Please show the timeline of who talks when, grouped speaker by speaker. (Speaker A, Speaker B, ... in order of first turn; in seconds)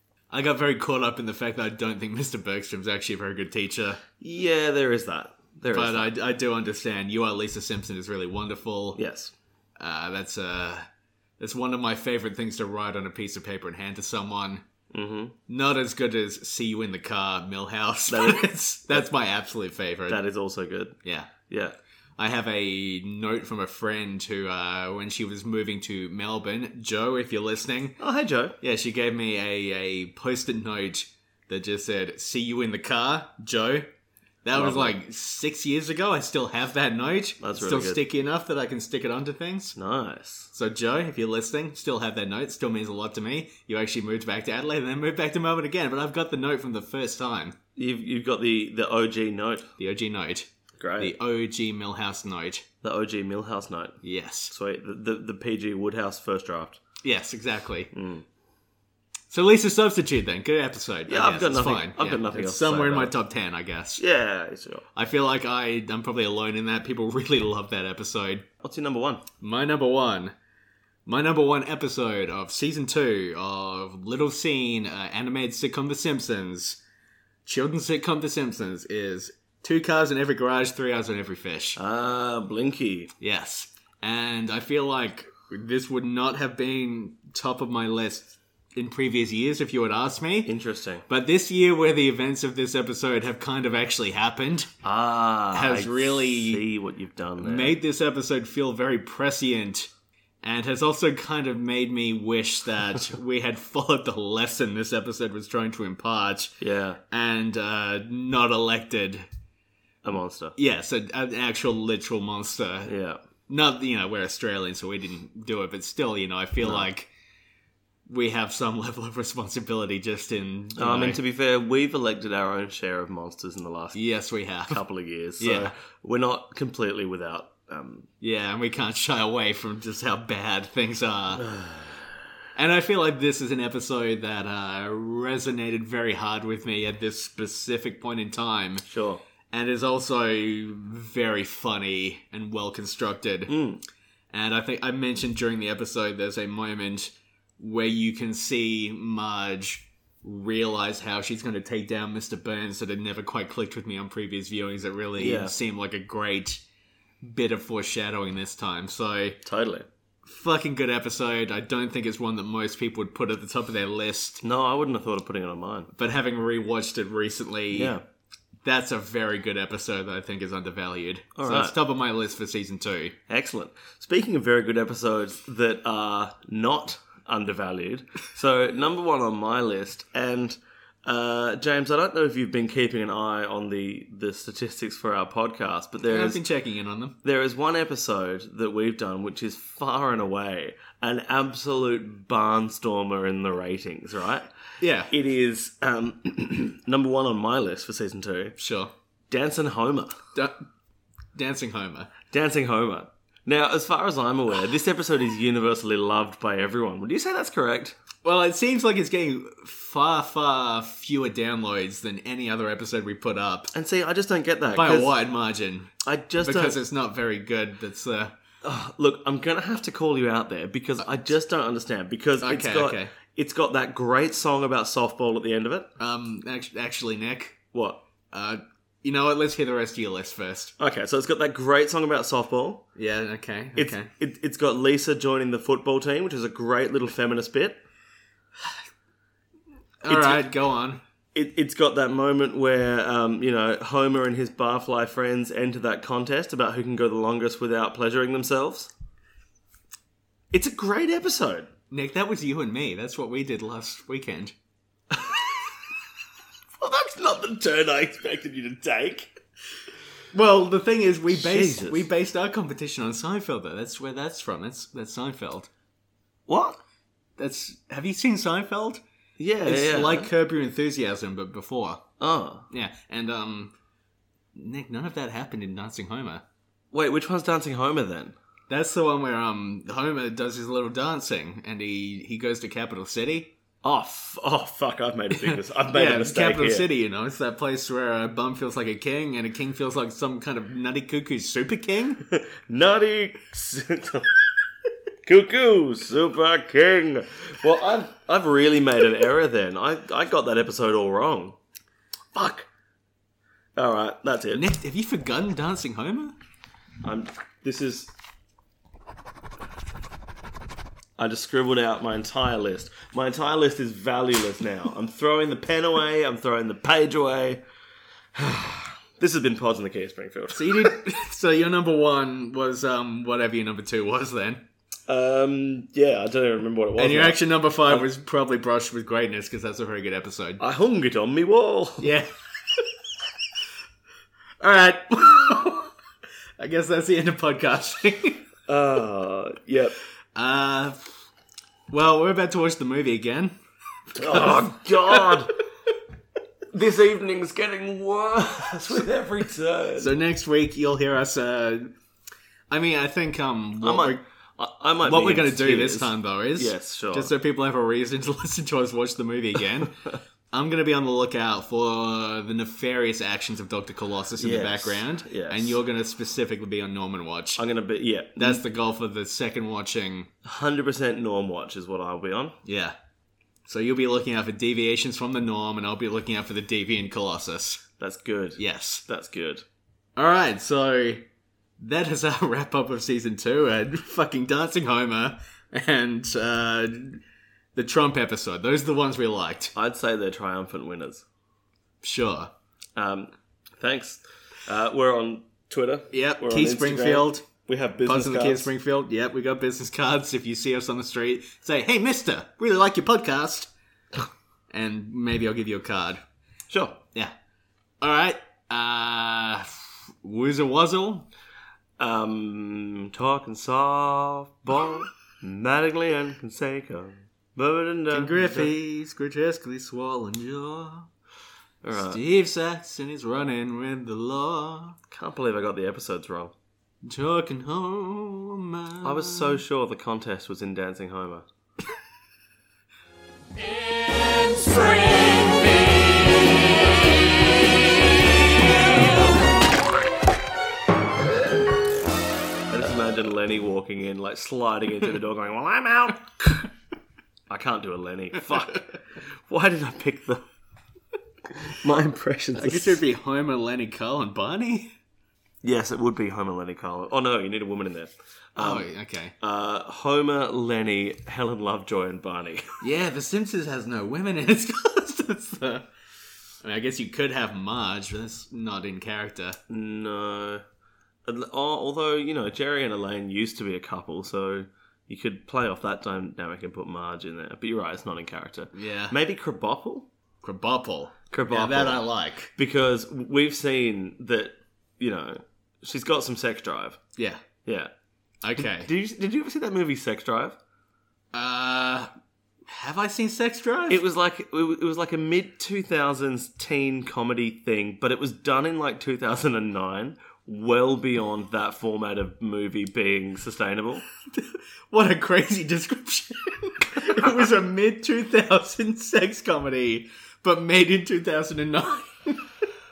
Speaker A: 0.3-4.0, 5.7-9.0, 9.8-10.9, 11.4-14.6, 15.5-20.2, 21.0-21.3, 22.2-28.0, 28.6-33.9, 34.4-39.8, 40.5-47.6, 49.8-52.6, 54.0-54.5, 57.0-57.9, 59.3-64.0, 64.9-68.5, 69.4-70.3, 71.0-76.8, 77.4-81.8, 83.2-90.5, 91.1-94.7, 95.5-96.6, 97.4-99.9, 100.4-106.6, 107.1-109.3, 110.5-112.9, 113.5-117.1, 118.1-121.2, 123.9-124.8, 125.4-125.7, 128.2-131.5, 132.6-138.8, 139.5-143.6, 144.3-156.6, 157.2-159.4, 160.3-164.4, 165.9-168.0, 168.6-173.2, 186.1-187.2, 194.8-195.1, 198.6-198.9, 200.3-200.6, 201.3-202.1, 208.2-213.7, 214.7-218.3, 222.4-223.1, 226.0-227.6, 228.3-230.7, 232.9-234.1, 240.0-241.0, 251.9-254.5, 260.3-265.7, 267.4-269.0, 269.6-272.0, 272.7-273.7, 274.5-276.4, 278.7-283.5, 285.4-292.2, 304.5-306.3, 320.5-324.6, 327.0-330.6, 332.0-332.3, 334.6-335.9, 336.6-338.4, 340.3-341.1, 341.9-343.5, 344.1-345.3, 350.0-351.9, 352.7-354.2, 355.0-367.6, 368.4-370.3, 372.6-372.9, 373.6-377.8, 378.6-379.0, 380.1-381.3, 381.8-387.2, 387.7-389.7, 392.0-392.5, 396.1-397.5, 398.1-403.7, 404.7-406.2, 408.0-411.3, 418.1-421.1, 421.9-425.0, 427.0-429.6, 434.2-435.9, 452.6-454.9, 458.6-459.3, 462.8-465.9, 466.6-469.6, 478.7-479.1, 480.4-482.5, 487.2-487.4, 488.4-488.9, 491.3-492.1, 492.7-494.0, 504.3-512.5
Speaker B: 4.2-6.1, 8.9-9.3, 14.9-15.3, 18.1-19.1, 20.1-21.8, 28.0-28.6, 34.5-35.0, 37.4-38.0, 39.8-40.5, 47.8-49.7, 50.8-51.1, 52.8-56.8, 57.9-58.2, 61.1-63.1, 64.0-64.8, 68.6-69.2, 81.8-83.1, 90.4-91.0, 94.8-97.8, 106.6-107.0, 110.0-110.5, 112.9-113.2, 116.6-116.8, 120.8-124.0, 124.7-128.1, 131.4-132.0, 138.8-139.2, 143.5-143.8, 155.2-155.5, 159.4-159.9, 164.4-165.9, 167.7-168.0, 171.3-171.8, 173.3-186.4, 187.2-194.5, 195.1-198.6, 199.3-200.2, 202.3-208.0, 213.7-215.1, 216.0-216.8, 218.6-225.9, 227.7-228.0, 230.8-232.8, 233.8-237.8, 240.1-240.5, 241.3-248.9, 250.5-251.7, 256.8-259.3, 261.3-262.1, 266.5-266.8, 269.4-270.3, 272.2-272.7, 276.9-278.4, 283.8-286.9, 292.5-294.4, 295.2-301.6, 302.3-302.7, 303.8-304.6, 307.0-308.1, 311.2-317.6, 318.3-320.9, 325.1-328.1, 330.6-332.1, 338.7-339.9, 344.1-345.5, 346.7-350.2, 353.8-357.3, 364.4-365.8, 367.6-368.6, 370.4-372.6, 378.0-379.6, 389.7-391.2, 392.9-398.7, 406.7-407.0, 412.0-418.7, 421.8-422.2, 425.1-426.5, 429.0-431.4, 442.7-446.7, 447.5-450.4, 451.6-453.0, 455.6-462.7, 469.7-470.6, 471.2-480.1, 481.3-482.0, 482.6-487.0, 487.6-487.9, 488.6-490.6, 493.9-504.0